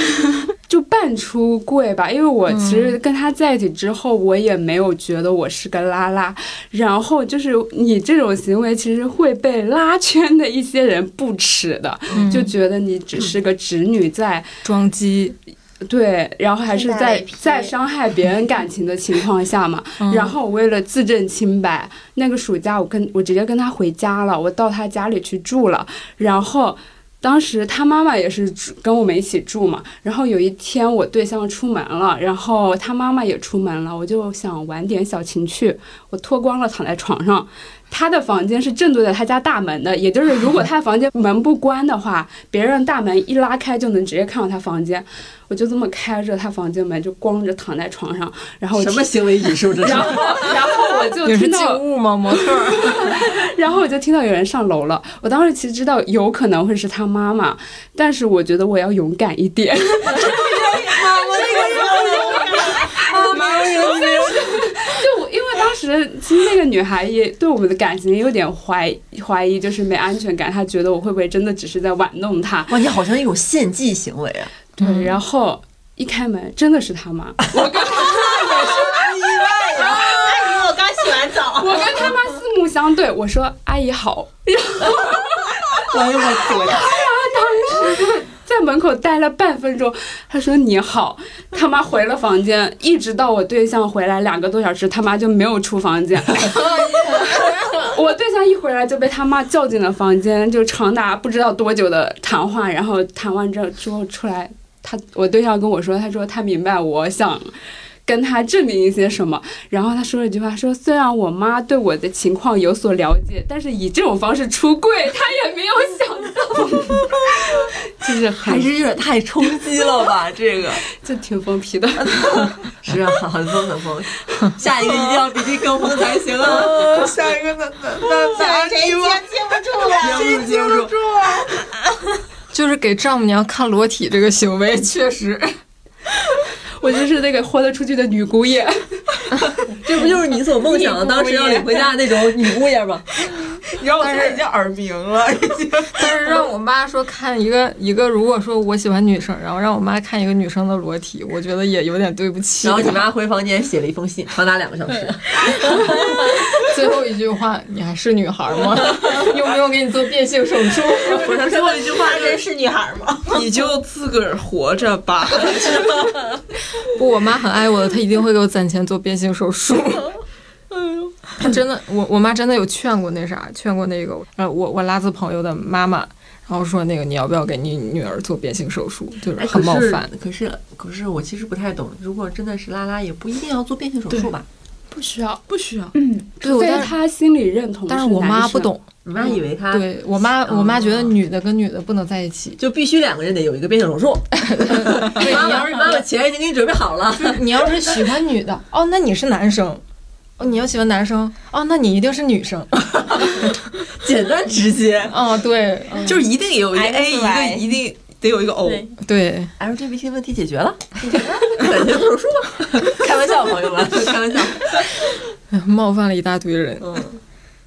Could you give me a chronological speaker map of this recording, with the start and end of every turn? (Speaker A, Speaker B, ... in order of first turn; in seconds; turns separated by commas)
Speaker A: 0.1-14.5, Speaker B: 2.5-3.0, Speaker B: 12.1-12.5, Speaker B: 14.6-15.4, Speaker A: 15.8-60.7, Speaker C: 16.7-17.7, Speaker B: 20.0-20.4, Speaker D: 48.7-50.6, Speaker B: 51.2-53.1, Speaker E: 60.2-62.7, Speaker C: 60.2-63.8, Speaker D: 63.1-64.4, Speaker E: 63.3-64.2, Speaker A: 63.4-72.8, Speaker D: 72.7-74.5, Speaker B: 74.8-75.2, Speaker A: 74.8-78.9, Speaker D: 77.5-80.2, Speaker C: 78.1-81.9, Speaker A: 81.5-107.5, Speaker D: 85.9-87.0, Speaker B: 96.8-97.7, Speaker A: 108.0-118.7, Speaker D: 118.4-120.8, Speaker A: 120.8-122.4, Speaker D: 122.8-127.0, Speaker E: 124.8-125.4, Speaker E: 126.4-131.6, Speaker C: 128.0-130.5, Speaker D: 130.0-130.9, Speaker B: 132.5-135.5, Speaker A: 136.8-139.4, Speaker D: 139.8-143.2, Speaker C: 140.6-141.9, Speaker E: 143.2-146.3, Speaker B: 144.0-144.4, Speaker B: 145.9-153.0, Speaker D: 152.6-155.8, Speaker B: 156.7-161.2, Speaker D: 161.0-162.4, Speaker C: 161.2-163.4, Speaker E: 163.3-166.2, Speaker B: 166.9-170.1, Speaker B: 171.4-180.1, Speaker D: 179.3-184.5, Speaker A: 184.9-185.4, Speaker E: 185.5-185.9, Speaker A: 186.4-188.7, Speaker B: 186.4-186.9, Speaker B: 187.9-188.8, Speaker D: 189.0-191.2, Speaker B: 189.7-192.6, Speaker D: 192.6-198.0, Speaker B: 194.4-196.0, Speaker B: 197.2-199.8, Speaker B: 200.4-203.4, Speaker D: 203.9-205.2, Speaker B: 205.1-206.1, Speaker D: 205.9-206.2, Speaker E: 206.0-208.9, Speaker C: 206.7-207.8, Speaker C: 208.6-208.9, Speaker B: 209.0-209.5, Speaker D: 209.6-214.9, Speaker B: 215.5-217.0, Speaker D: 216.8-217.2